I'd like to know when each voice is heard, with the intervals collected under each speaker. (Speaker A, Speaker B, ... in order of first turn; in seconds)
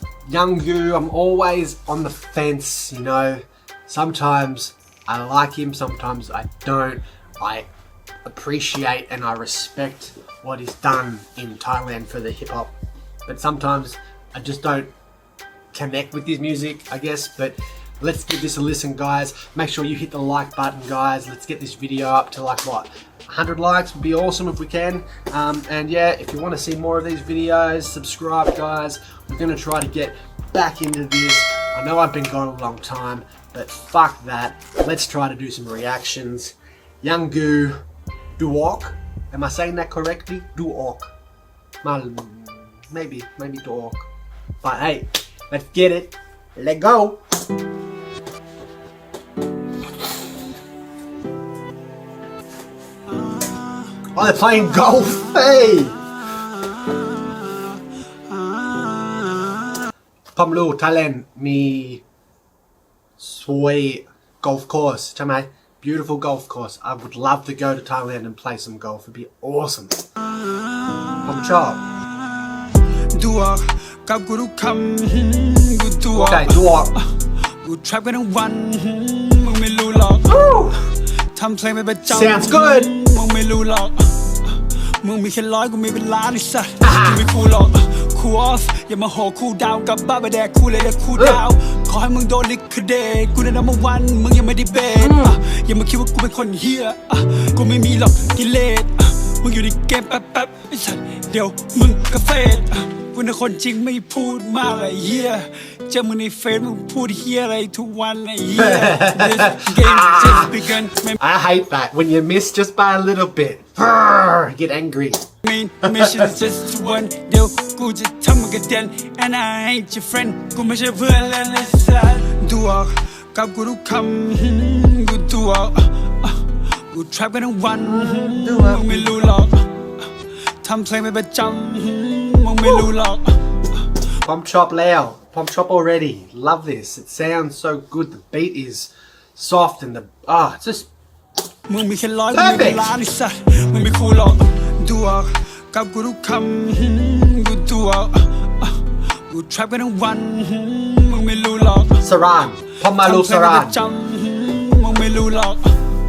Speaker A: 0.3-7.7, 8.2-12.7, 13.2-14.9, 15.7-37.8, 38.4-41.1, 41.8-44.1, 44.6-47.2, 54.1-56.0, 60.3-62.0, 63.2-70.1, 71.2-71.8, 76.1-77.0, 80.2-80.8, 82.0-82.9, 86.8-87.3, 91.1-91.4, 95.0-95.4, 108.5-110.6, 111.2-115.2, 115.8-116.3, 127.8-129.2, 134.2-140.9, 142.3-142.9, 152.0-153.8
Speaker B: 73.1-77.0, 77.6-80.3, 81.3-84.5, 85.0-111.2, 115.4-129.8, 130.6-133.4, 141.7-151.9, 153.0-155.8